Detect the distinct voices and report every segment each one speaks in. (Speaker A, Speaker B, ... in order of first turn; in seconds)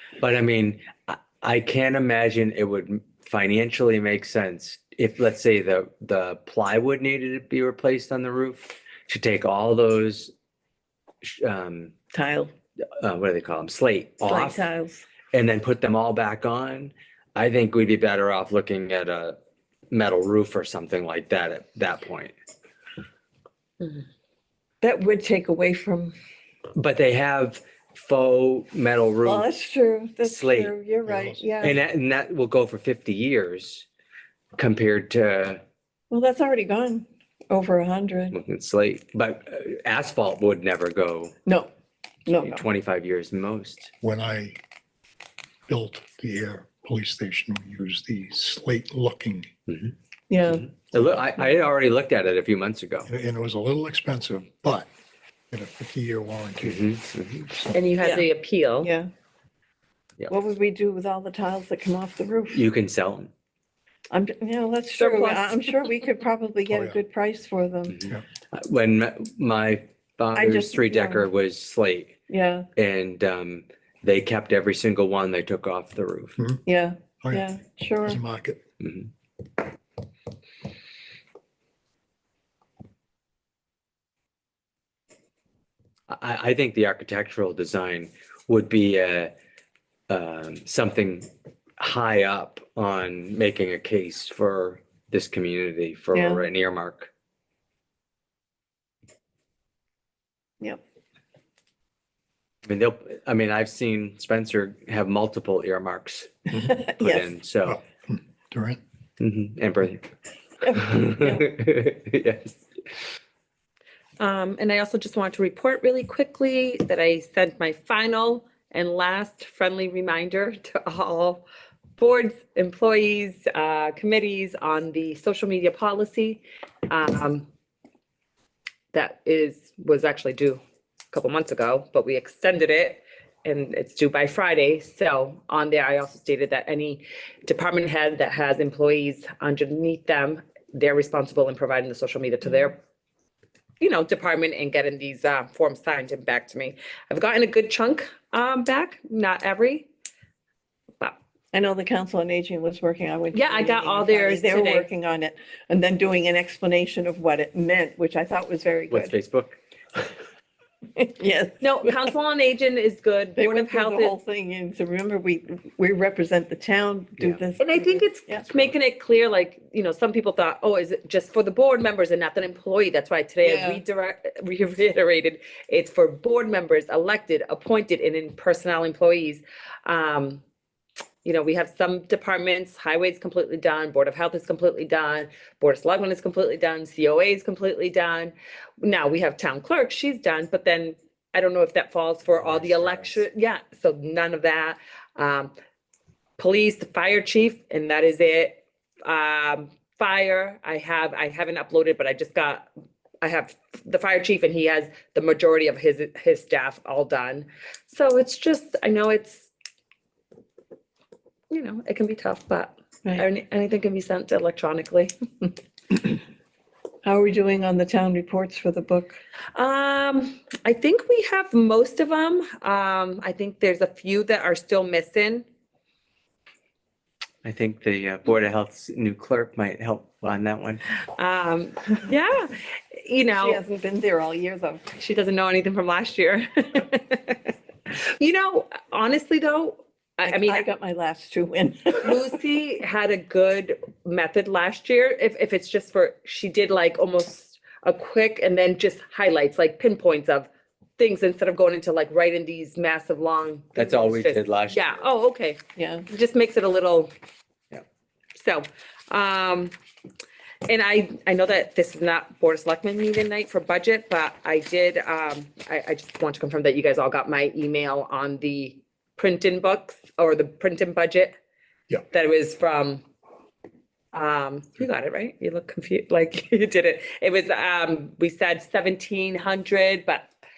Speaker A: 0.2-10.3, 11.2-11.9, 13.0-14.7, 15.3-19.4, 19.9-22.3, 26.7-29.4, 30.2-30.7, 31.6-33.9, 34.5-35.6, 38.3-41.3, 42.4-43.9, 49.7-49.9, 50.5-53.1, 56.6-57.6, 62.5-63.3, 67.9-72.2, 72.8-76.4, 78.8-79.1, 86.1-89.3, 90.1-91.3, 91.8-97.1, 102.6-107.8, 109.2-110.1, 110.7-112.6, 158.9-159.6, 192.4-193.2, 227.4-230.8, 253.7-255.0
Speaker B: 12.1-12.5, 14.2-15.1, 24.8-26.1, 29.2-31.8, 36.1-38.4, 41.5-41.7, 42.2-42.6, 50.3-50.6, 58.8-59.1, 60.3-62.6, 64.1-68.0, 70.3-71.3, 72.3-72.7, 76.6-78.2, 96.1-96.4, 106.6-107.3, 110.6-111.4, 151.5-159.1, 161.0-161.9, 163.4-168.7, 173.4-173.8, 217.0-219.2, 233.4-234.9, 240.2-242.2, 255.8-256.1
Speaker C: 31.1-31.8, 44.0-44.6, 45.7-49.5, 53.0-54.9, 55.5-56.8, 57.5-57.8, 66.7-67.0, 77.2-77.5, 78.0-78.6, 107.6-108.8
Speaker D: 57.7-58.9, 65.0-65.7, 114.2-121.4, 122.0-127.5, 128.9-142.8, 143.8-149.9, 153.3-154.9, 161.6-164.2, 167.6-180.4, 181.2-195.5, 196.4-202.7, 203.2-209.5, 211.5-215.1, 219.5-225.4, 231.0-233.6, 234.9-240.7, 242.0-257.1, 258.3-259.7, 260.7-271.3, 272.1-273.0, 274.1-280.3